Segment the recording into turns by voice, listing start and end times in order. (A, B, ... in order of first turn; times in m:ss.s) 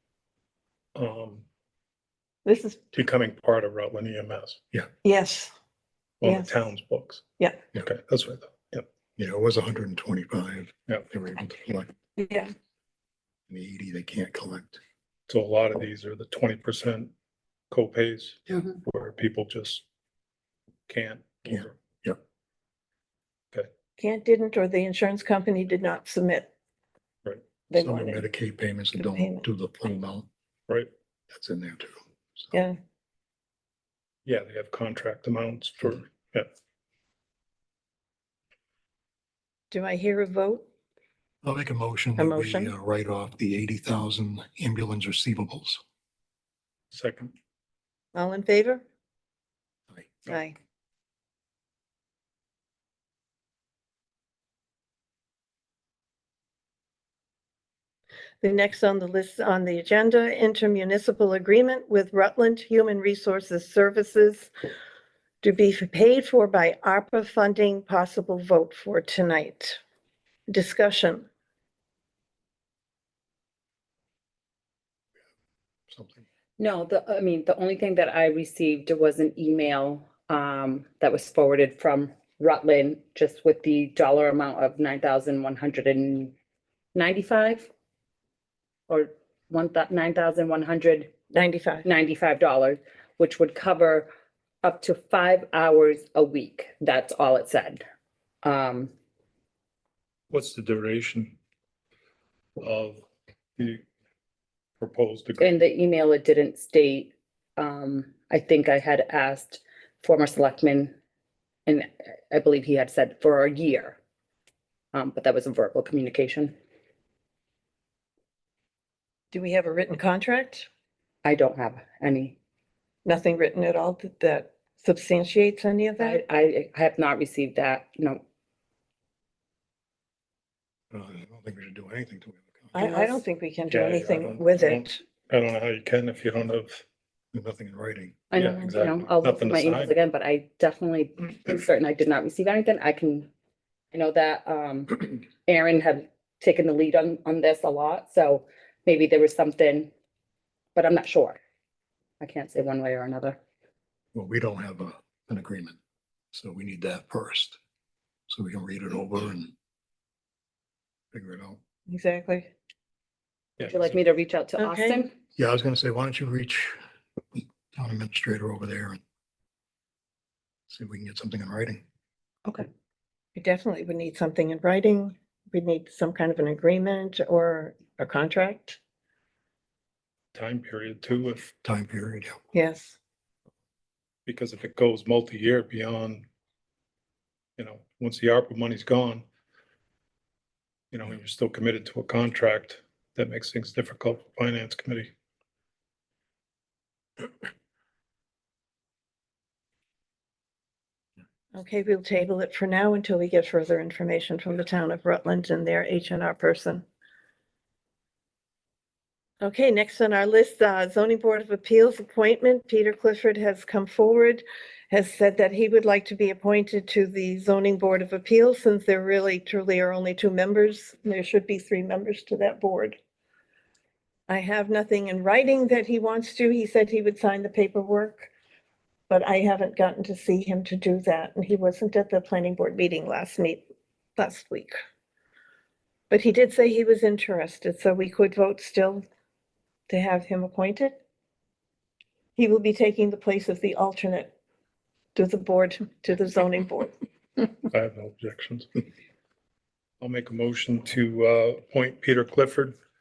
0:01.0-0:01.5 A
0:02.4-0:02.8 B
0:02.9-0:04.6 A
0:05.0-0:05.5 B
0:06.2-0:07.2 A
0:06.2-0:06.5 B
0:07.8-0:08.9 A
0:09.2-0:11.9 C
0:12.2-0:12.5 B
0:13.5-0:14.8 C
0:15.3-0:17.1 A
0:17.7-0:19.8 A
0:20.9-0:21.8 A
0:21.5-0:22.2 C
0:24.0-0:26.5 B
0:27.7-0:28.2 B
0:27.8-0:30.3 C
0:29.0-0:29.4 B
0:31.3-0:32.5 C
0:32.5-0:32.8 B
0:34.2-0:36.5 A
0:39.7-0:40.6 B
0:41.4-0:45.8 C
0:42.2-0:42.7 B
0:46.9-0:47.3 A
0:48.1-0:48.8 B
0:50.3-0:50.6 B
0:58.4-1:04.5 B
1:05.4-1:09.8 B
1:10.5-1:11.3 B
1:15.9-1:16.2 C
1:16.6-1:26.4 D
1:26.9-1:27.7 D
1:28.9-1:31.1 D
1:31.3-1:31.9 B
1:31.8-1:34.1 D
1:34.6-1:37.8 D
1:38.4-1:38.9 D
1:40.3-1:41.4 A
1:42.6-1:43.0 A
1:43.6-1:43.8 A
1:44.8-1:45.6 A
1:45.4-1:51.0 D
1:51.7-1:54.0 D
1:54.9-1:56.6 D
1:59.3-2:00.7 B
2:01.2-2:02.4 D
2:03.0-2:06.2 B
2:06.0-2:08.2 D
2:10.9-2:12.8 C
2:12.7-2:15.0 B
2:12.8-2:13.2 D
2:13.7-2:16.8 A
2:17.3-2:18.2 C
2:18.3-2:23.3 D
2:18.4-2:19.9 A
2:23.9-2:29.9 D
2:30.8-2:31.4 D
2:32.2-2:33.4 D
2:34.1-2:35.8 C
2:36.3-2:37.6 C
2:38.3-2:39.5 C
2:41.1-2:41.6 C
2:41.9-2:42.5 B
2:43.6-2:44.0 A
2:43.7-2:45.1 D
2:44.6-2:45.0 B
2:45.4-2:46.8 C
2:47.3-2:49.0 C
2:50.7-2:51.8 C
2:53.4-2:58.8 B
3:00.3-3:01.5 A
3:01.5-3:02.4 C
3:02.5-3:03.0 B
3:04.2-3:06.3 A
3:07.6-3:09.2 A
3:10.9-3:15.1 A
3:21.5-3:26.8 B
3:29.4-3:43.0 B
3:44.3-3:48.3 B
3:49.1-3:53.6 B
3:54.2-3:54.8 B
3:56.1-3:59.0 B
3:59.9-4:01.0 B
4:02.4-4:04.3 B
4:05.1-4:06.9 B
4:07.7-4:08.7 A
4:10.0-4:12.8 A